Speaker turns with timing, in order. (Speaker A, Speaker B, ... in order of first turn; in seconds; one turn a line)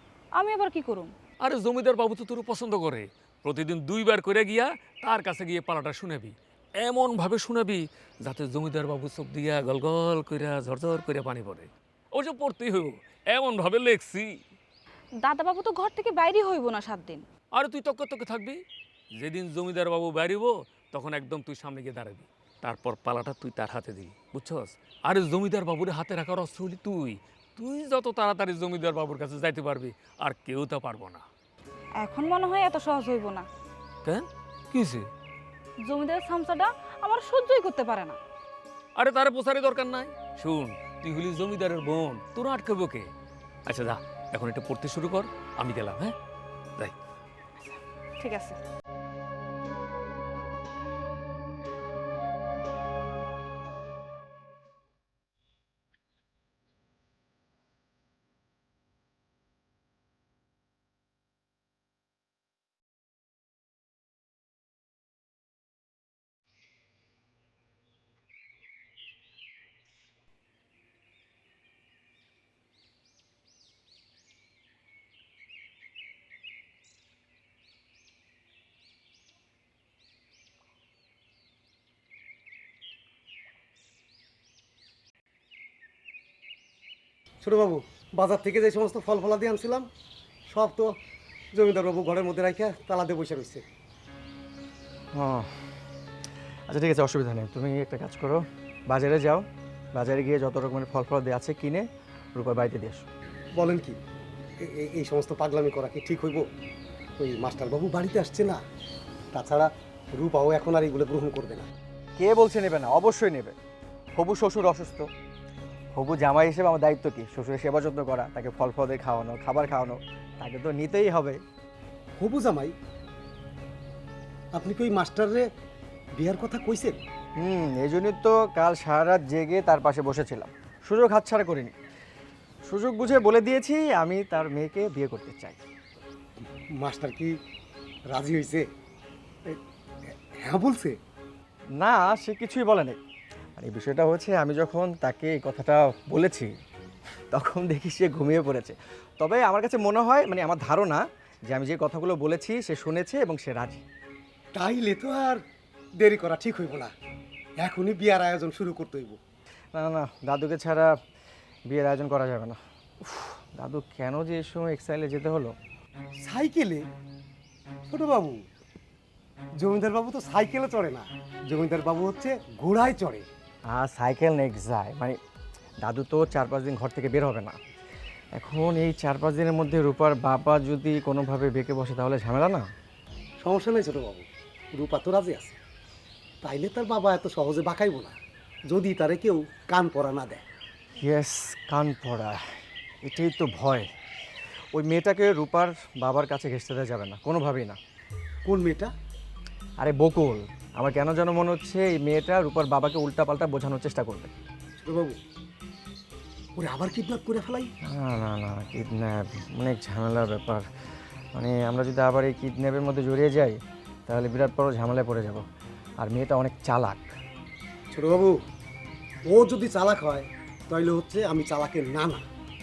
Speaker A: 0.4-1.1
Speaker B: 1.4-14.4
Speaker A: 15.2-17.2
Speaker B: 17.5-18.6
Speaker B: 19.2-31.2
Speaker A: 32.0-33.5
Speaker B: 34.0-35.1
Speaker A: 35.9-38.2
Speaker B: 39.0-43.1
Speaker B: 43.7-46.1
Speaker A: 47.6-48.6
Speaker C: 87.4-89.9
Speaker C: 90.5-90.9
Speaker C: 91.5-93.6
Speaker D: 95.2-95.5
Speaker D: 96.7-103.1
Speaker C: 103.6-104.0
Speaker C: 104.7-106.5
Speaker C: 107.2-108.6
Speaker C: 109.3-111.7
Speaker D: 112.2-113.6
Speaker D: 114.2-115.1
Speaker D: 115.9-121.4
Speaker C: 122.2-122.7
Speaker C: 124.6-125.5
Speaker C: 126.2-127.0
Speaker D: 127.4-131.7
Speaker D: 132.7-135.6
Speaker C: 136.8-137.3
Speaker C: 138.1-138.7
Speaker C: 140.4-141.0
Speaker D: 141.8-143.0
Speaker D: 143.6-146.5
Speaker D: 147.3-153.8
Speaker C: 154.5-155.4
Speaker C: 156.0-156.9
Speaker C: 157.6-159.2
Speaker D: 159.7-160.9
Speaker D: 161.7-165.6
Speaker C: 166.3-166.8
Speaker C: 167.9-168.4
Speaker C: 169.6-173.2
Speaker D: 173.7-175.2
Speaker D: 175.8-177.6
Speaker D: 178.4-182.7
Speaker C: 183.4-185.5
Speaker C: 186.4-188.1
Speaker C: 188.7-190.4
Speaker D: 191.0-192.4
Speaker D: 193.0-193.9
Speaker D: 194.8-197.8
Speaker C: 198.5-198.9
Speaker D: 199.8-204.3
Speaker C: 204.8-205.2
Speaker C: 206.6-207.7
Speaker D: 207.9-210.7
Speaker D: 211.3-215.4
Speaker D: 216.0-217.1
Speaker C: 217.9-218.4
Speaker C: 219.3-222.2